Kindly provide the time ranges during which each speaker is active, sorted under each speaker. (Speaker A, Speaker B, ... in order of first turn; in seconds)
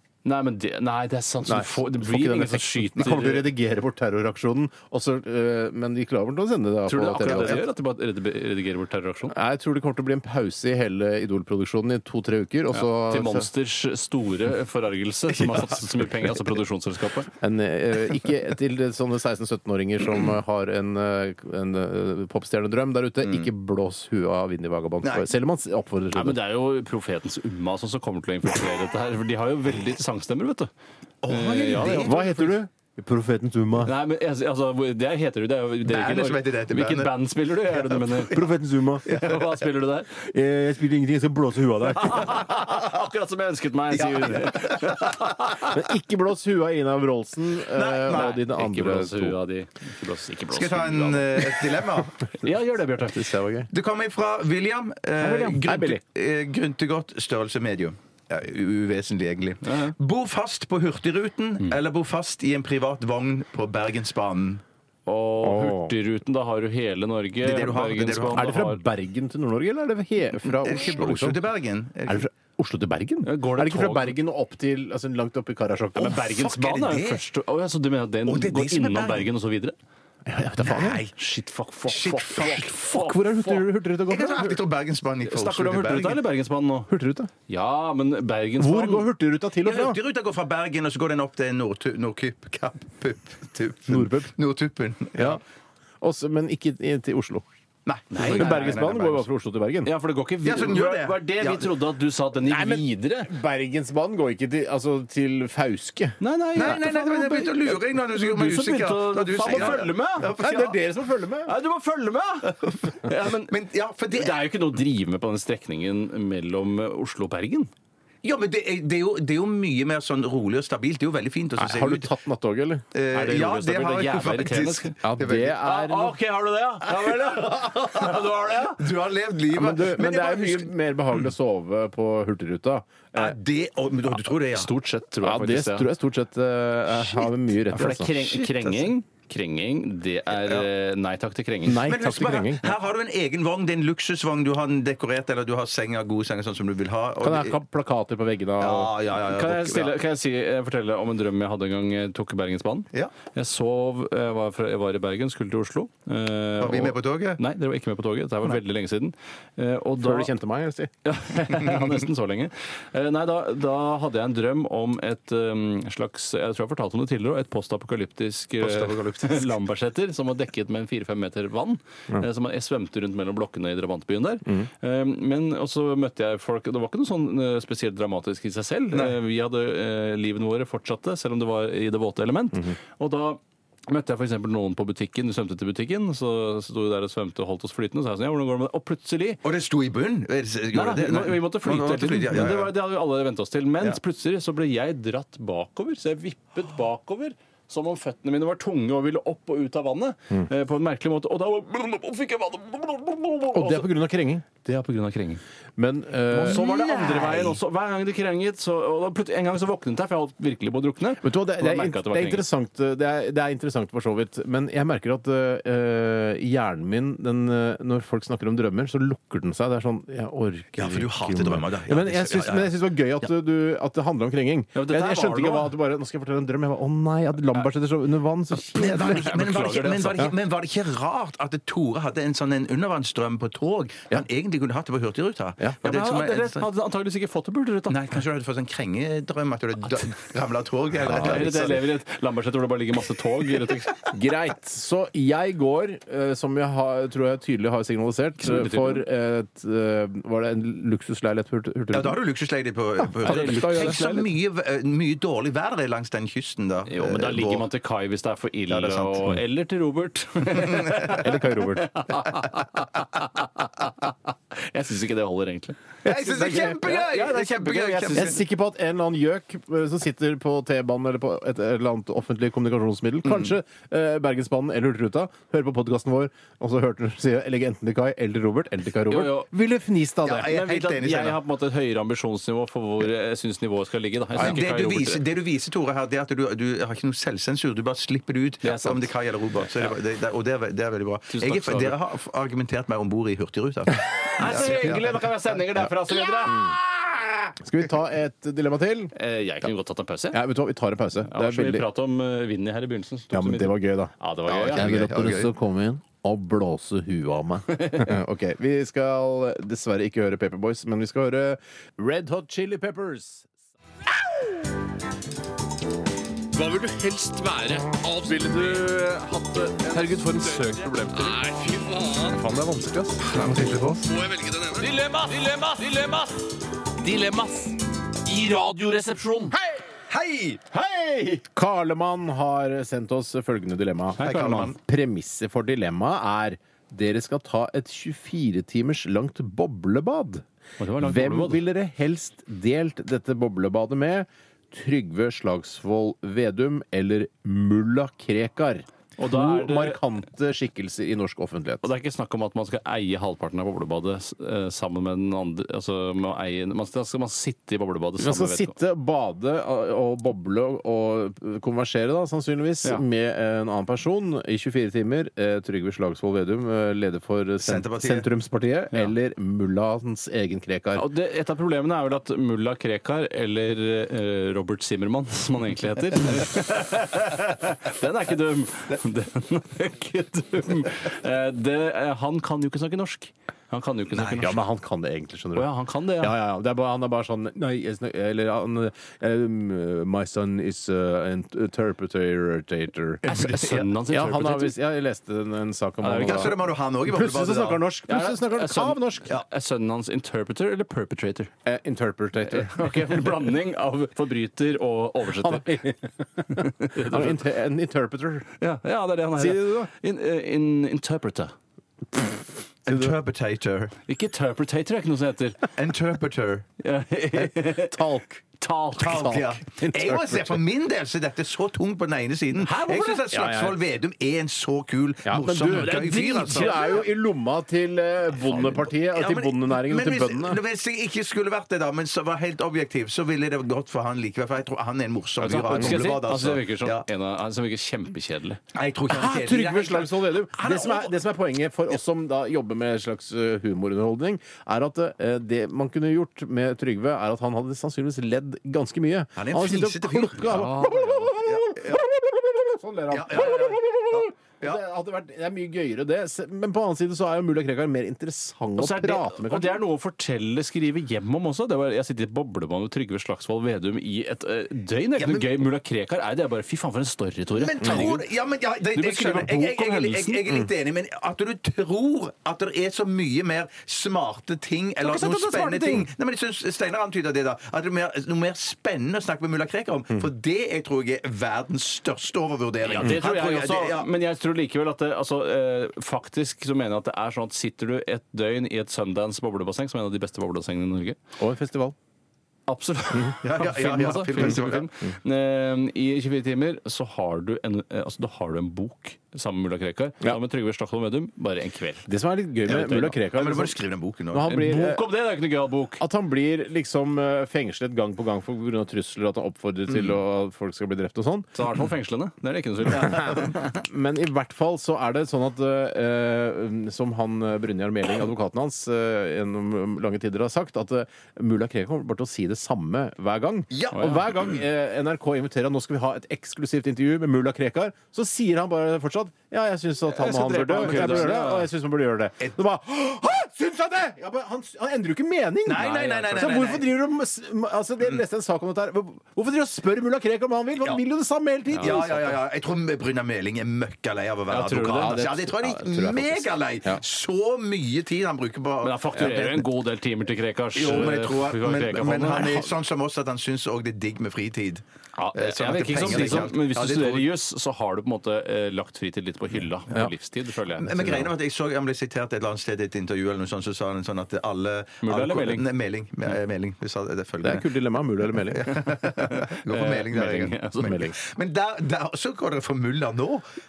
Speaker A: 0.2-3.5, 6.9-9.4, 12.7-17.3, 26.1-30.7, 31.3-32.5, 33.8-38.5, 39.0-40.2, 41.9-45.8, 48.1-53.3, 55.2-55.5, 59.6-60.0, 65.1-68.8, 73.2-74.2, 76.0-79.8, 81.2-83.7, 85.2-86.9, 87.5-89.1, 98.1-98.9, 99.8-103.3, 106.2-110.3, 111.5-113.5, 114.1-117.7, 123.1-128.8, 134.5-135.9, 137.7-141.9, 149.2-160.3, 161.1-189.4, 190.7-203.9, 204.6-205.4, 206.3-212.5, 224.7-225.8, 228.7-230.3, 235.8-238.0, 241.1-244.2, 248.4-249.1, 253.2-254.3, 256.9-268.4, 279.1-279.5, 280.4-285.2, 288.6-289.1, 289.6-289.9, 291.3-291.9, 294.4-296.8, 299.1-300.4, 301.2-304.9, 307.7-308.1, 330.7-331.4, 334.2-334.8, 340.8-341.6, 349.2-350.0, 351.8-358.7, 370.9-384.6, 385.5-386.4, 393.2-394.8, 396.0-396.6, 398.1-401.5, 402.4-405.8, 406.5-407.4, 408.6-411.6, 414.1-415.6, 416.8-418.0, 418.6-419.4, 422.6-423.2, 425.7-427.0, 435.4-438.6, 450.5-451.3, 458.8-468.3, 468.9-470.4, 475.0-476.1, 482.8-491.2, 492.7-502.1, 502.7-503.1, 504.4-506.0, 511.6-513.8, 523.9-524.2, 530.1-531.7, 535.7-536.5, 544.5-545.2, 548.8-552.7, 555.2-561.2, 565.0-565.7, 568.8-571.1
Speaker B: 1.5-7.6, 9.3-13.5, 17.4-26.4, 31.8-33.9, 38.3-39.1, 40.3-42.5, 45.6-49.4, 53.0-53.7, 55.2-56.0, 65.4-65.9, 68.3-71.4, 72.1-76.3, 80.3-81.0, 82.8-84.6, 86.9-87.3, 88.6-90.0, 93.9-94.3, 95.2-95.4, 96.0-97.5, 98.2-99.9, 102.4-106.8, 109.5-111.5, 121.6-122.9, 125.0-126.2, 129.5-133.4, 135.2-138.2, 141.7-142.8, 147.2-149.0, 160.0-160.9, 203.5-204.4, 205.8-206.6, 211.2-229.4, 230.1-230.3, 241.1-241.7, 244.1-252.2, 253.2-254.0, 261.1-261.9, 266.1-266.8, 268.1-280.6, 296.4-296.8, 297.6-299.1, 300.3-301.9, 303.3-313.5, 331.4-340.4, 341.0-351.9, 358.2-371.1, 384.4-393.2, 394.1-399.3, 401.6-403.3, 405.3-408.5, 409.4-409.9, 412.9-413.1, 417.6-418.4, 419.0-420.6, 423.3-423.8, 425.2-430.6, 435.7-436.1, 439.1-459.8, 491.4-491.9, 502.1-503.8, 504.3-505.1, 506.0-511.5, 513.0-542.4, 544.8-547.0, 556.0-556.5, 560.9-561.2, 567.4-568.7, 570.8-571.1
Speaker C: 7.3-7.6, 25.0-25.3, 31.2-32.5, 35.9-38.0, 39.1-39.5, 44.0-45.1, 47.7-48.4, 50.5-52.2, 53.7-64.6, 67.4-68.5, 70.5-72.3, 76.2-77.2, 78.3-79.3, 80.6-81.2, 81.9-82.8, 84.1-86.2, 89.6-95.4, 97.9-99.2, 100.4-101.7, 106.6-110.8, 112.5-114.5, 118.2-122.1, 122.9-125.6, 126.9-130.7, 133.2-134.7, 138.3-138.9, 141.8-147.6, 148.6-149.9, 156.6-157.4, 168.6-169.5, 189.4-192.8, 206.4-207.6, 220.8-222.7, 228.8-236.7, 237.9-241.8, 251.9-257.7, 258.7-259.3, 260.7-261.1, 266.0-268.4, 280.2-281.4, 284.4-295.1, 304.6-305.5, 330.1-330.6, 334.2-334.8, 367.6-368.3, 384.1-384.4, 393.2-393.9, 396.2-397.9, 412.9-414.0, 415.8-416.7, 419.0-427.1, 429.0-437.1, 438.7-441.1, 449.4-452.1, 453.1-454.8, 465.2-465.5, 467.6-484.1, 493.4-494.9, 502.8-504.5, 523.7-524.5, 530.7-531.5, 535.7-536.9, 541.8-549.6, 550.8-554.8, 555.3-557.3, 560.8-567.7, 568.4-573.4
Speaker D: 316.5-322.4, 324.1-326.5, 327.0-329.6
Speaker E: 318.4-318.9, 319.9-321.5, 322.3-324.2